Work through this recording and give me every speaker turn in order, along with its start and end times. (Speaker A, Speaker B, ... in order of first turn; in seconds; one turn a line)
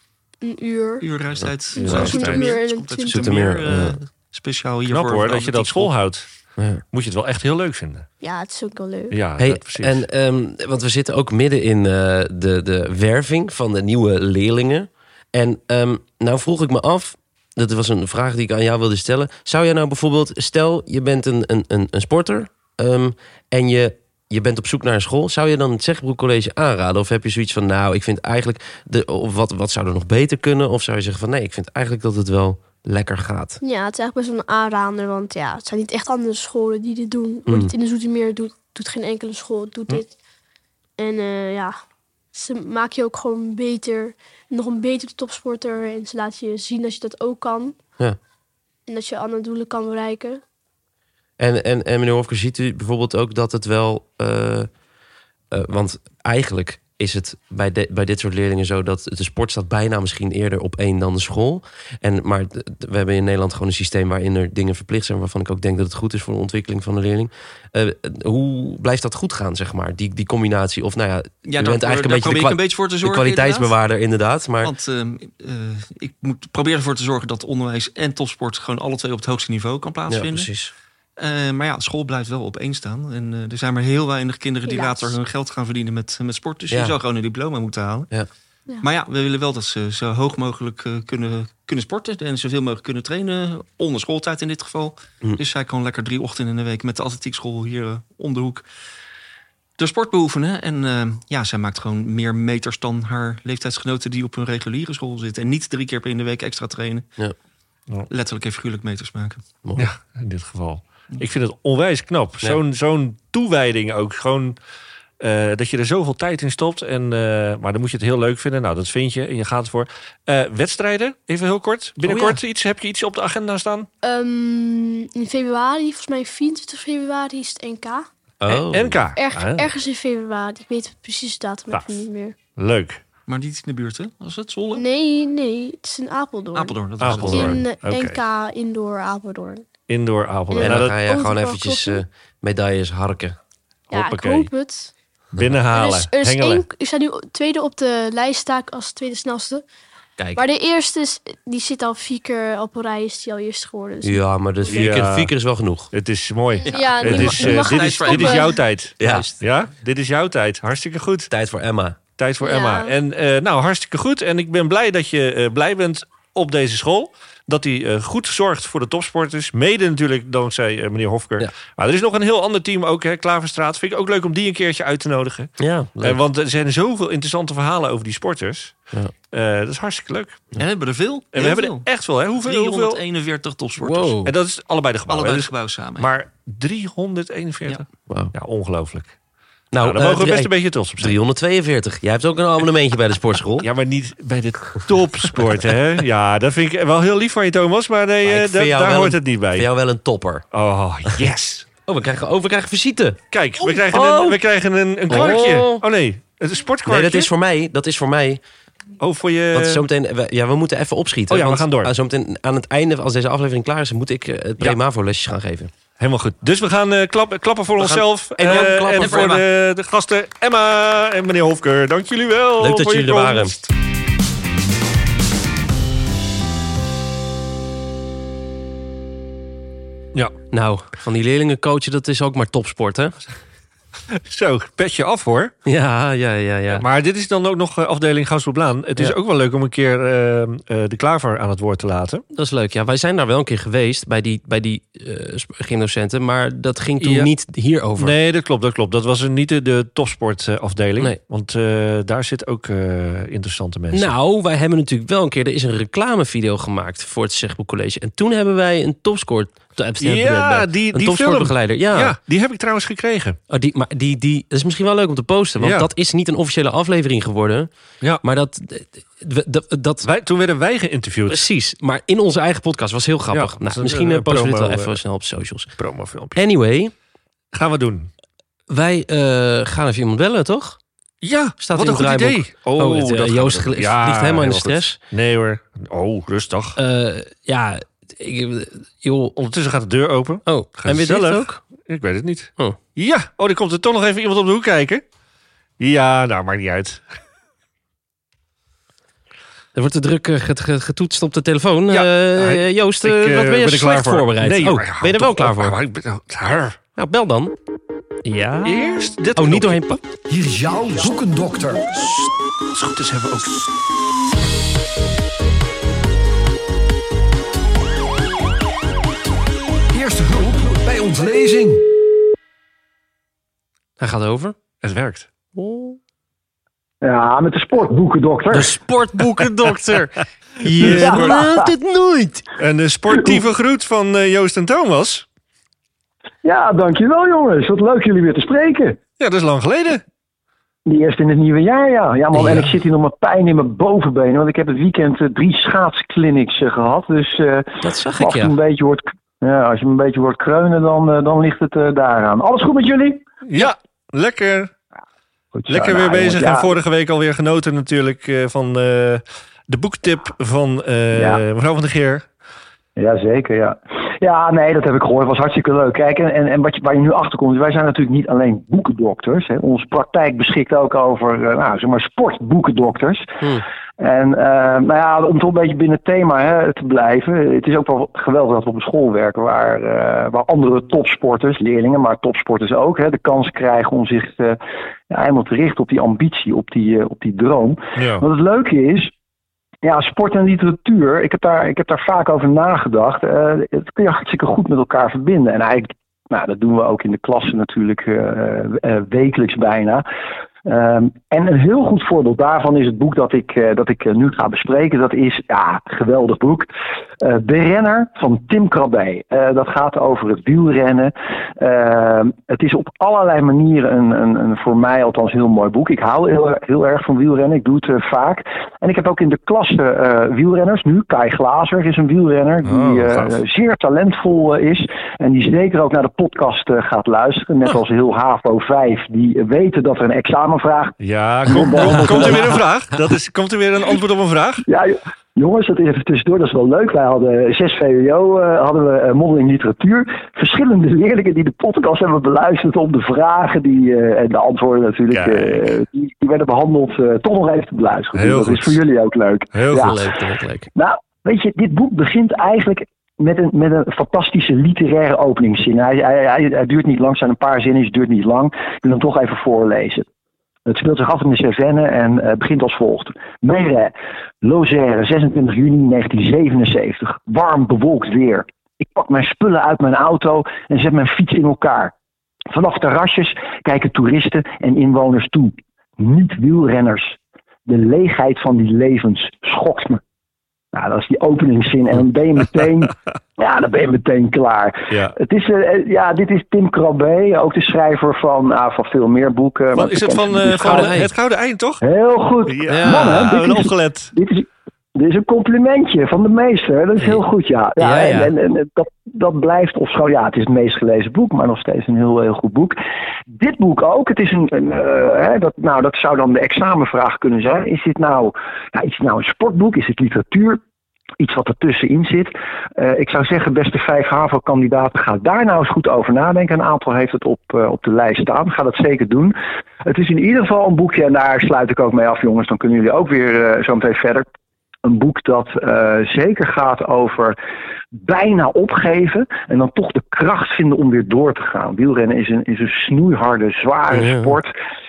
Speaker A: 0.4-1.1
Speaker B: 1.0-5.9
Speaker A: 1.7-3.4
Speaker C: 1.8-2.5
Speaker D: 1.8-2.1
Speaker D: 3.0-4.0
Speaker C: 4.9-6.3
Speaker D: 6.6-6.8
Speaker C: 6.9-8.1
Speaker A: 8.2-9.2
Speaker C: 9.1-10.1
Speaker D: 9.4-33.6
Speaker A: 33.6-40.1
Speaker D: 37.5-37.7
Speaker A: 41.0-41.8
Speaker A: 42.3-47.8
Speaker A: 48.9-50.4
Speaker D: 51.4-54.7
Speaker D: 55.5-74.7
Speaker B: 71.5-73.7
Speaker B: 74.6-80.5
Speaker D: 80.1-80.7
Speaker B: 81.2-88.1
Speaker A: 84.7-85.2
Speaker D: 86.7-87.0
Speaker B: 88.8-98.7
Speaker B: 99.8-107.1
Speaker B: 108.1-109.4
Speaker C: 109.8-114.6
Speaker C: 115.2-123.9
Speaker D: 122.0-122.4
Speaker A: 124.0-128.1
Speaker D: 128.4-129.0
Speaker C: 128.5-129.7
Speaker A: 129.2-132.4
Speaker C: 131.7-132.0
Speaker C: 132.6-133.0
Speaker B: 133.3-134.9
Speaker A: 134.7-139.7
Speaker B: 136.5-137.6
Speaker C: 137.0-138.2
Speaker C: 139.9-141.0
Speaker A: 140.5-142.0
Speaker D: 140.6-143.4
Speaker C: 143.9-144.5
Speaker A: 143.9-144.9
Speaker C: 145.4-146.7
Speaker A: 145.7-149.6
Speaker D: 150.2-150.4
Speaker A: 150.4-154.9
Speaker D: 154.0-155.9
Speaker C: 154.7-155.3
Speaker C: 155.9-161.3
Speaker A: 156.6-158.6
Speaker B: 156.7-158.6
Speaker D: 157.1-157.4
Speaker D: 159.0-159.4
Speaker D: 161.3-162.0
Speaker C: 162.2-178.8
Speaker A: 162.4-162.9
Speaker D: 175.6-176.2
Speaker C: 179.3-180.4
Speaker B: 180.6-181.9
Speaker C: 181.3-183.0
Speaker B: 182.4-184.2
Speaker D: 183.8-184.3
Speaker C: 184.2-189.1
Speaker B: 185.1-186.1
Speaker D: 189.7-193.7
Speaker C: 189.8-191.2
Speaker C: 193.6-199.7
Speaker D: 198.2-200.4
Speaker C: 200.5-201.7
Speaker D: 201.9-204.4
Speaker C: 203.3-207.3
Speaker D: 205.1-205.8
Speaker D: 206.9-208.4
Speaker C: 209.0-209.8
Speaker D: 209.5-215.7
Speaker C: 211.3-211.9
Speaker C: 216.0-223.7
Speaker D: 217.8-219.4
Speaker B: 218.5-219.4
Speaker D: 222.6-223.6
Speaker D: 230.5-233.2
Speaker C: 234.1-235.5
Speaker D: 235.7-236.8
Speaker C: 236.7-242.2
Speaker D: 242.3-248.1
Speaker C: 247.0-247.3
Speaker C: 248.0-254.1
Speaker D: 253.9-262.1
Speaker C: 260.0-263.4
Speaker D: 263.5-267.7
Speaker C: 265.6-265.9
Speaker D: 268.2-270.1
Speaker C: 270.0-271.5
Speaker D: 271.3-275.7
Speaker C: 273.3-275.0
Speaker C: 275.8-276.4
Speaker D: 276.4-276.9
Speaker C: 277.5-278.1
Speaker D: 278.7-280.8
Speaker C: 281.2-286.8
Speaker D: 281.6-285.0
Speaker D: 286.8-289.4
Speaker C: 289.4-295.0
Speaker D: 290.5-291.6
Speaker C: 295.8-297.1
Speaker D: 299.8-305.8
Speaker C: 301.9-306.8
Speaker D: 307.0-307.5
Speaker D: 308.2-310.0
Speaker C: 308.6-309.8
Speaker E: 310.3-312.0
Speaker C: 312.7-313.7
Speaker E: 319.9-321.8
Speaker D: 324.0-324.6
Speaker C: 324.8-325.3
Speaker D: 325.6-326.0
Speaker F: 327.0-328.8
Speaker D: 328.5-332.5
Speaker C: 330.7-331.4
Speaker F: 330.8-331.6
Speaker C: 332.6-335.3
Speaker F: 336.4-339.0
Speaker C: 339.2-340.0
Speaker F: 340.9-353.3
Speaker D: 342.4-342.7
Speaker D: 347.8-348.6
Speaker C: 353.5-354.7
Speaker F: 355.5-356.7
Speaker C: 355.7-362.3
Speaker F: 361.1-361.4
Speaker F: 363.0-373.4
Speaker F: 374.0-389.1
Speaker C: 388.0-388.2
Speaker F: 389.8-400.0
Speaker F: 400.6-406.7
Speaker F: 407.2-432.6
Speaker C: 422.6-423.4
Speaker C: 431.0-434.6
Speaker F: 434.7-450.0
Speaker C: 445.1-445.7
Speaker C: 448.1-448.8
Speaker C: 449.5-450.0
Speaker D: 449.7-450.7
Speaker F: 450.8-460.1
Speaker F: 460.7-471.9
Speaker F: 472.5-480.0
Speaker F: 480.7-490.9
Speaker C: 489.8-491.8
Speaker D: 490.6-491.1
Speaker F: 491.8-510.6
Speaker C: 492.5-494.1
Speaker D: 492.7-493.3
Speaker D: 497.8-498.3
Speaker F: 511.2-524.3
Speaker F: 524.8-527.4
Speaker F: 527.9-534.5
Speaker D: 533.9-534.3